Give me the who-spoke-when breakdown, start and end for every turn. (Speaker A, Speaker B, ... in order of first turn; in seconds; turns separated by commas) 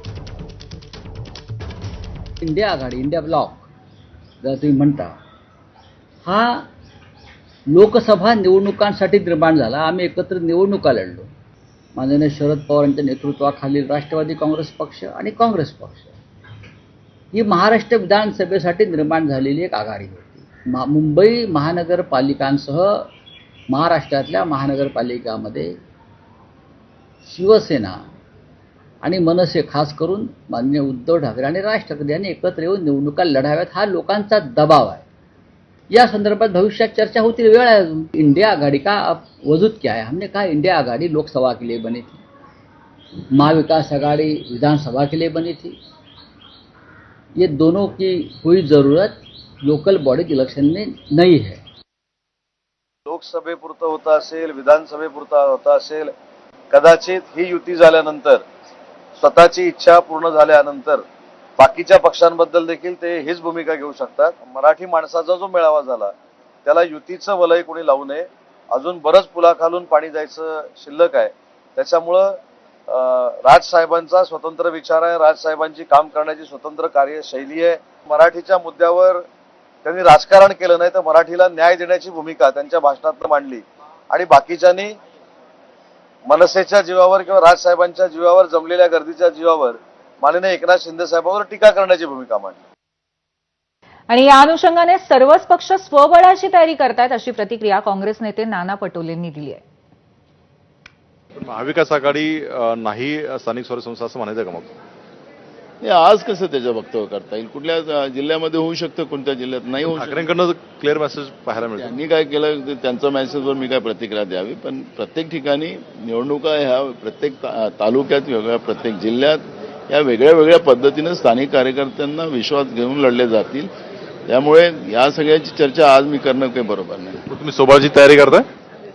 Speaker A: 2.4-3.7, Speaker A: 4.4-5.2, Speaker A: 6.2-6.7, Speaker A: 7.7-11.3, Speaker A: 11.9-16.2, Speaker A: 17.3-23.1, Speaker A: 23.7-25.8, Speaker A: 27.2-28.0, Speaker A: 29.0-35.0, Speaker A: 35.9-42.2, Speaker A: 43.3-45.8, Speaker A: 47.4-51.6, Speaker B: 53.1-56.1, Speaker B: 56.7-58.4, Speaker B: 59.2-61.0, Speaker B: 61.6-66.1, Speaker B: 66.7-72.3, Speaker B: 72.9-79.2, Speaker B: 79.8-84.9, Speaker B: 86.3-92.6, Speaker C: 94.1-99.6, Speaker D: 101.4-104.7, Speaker E: 105.8-110.3, Speaker D: 109.9-111.9, Speaker E: 111.7-123.7, Speaker E: 124.3-127.2, Speaker D: 127.3-128.4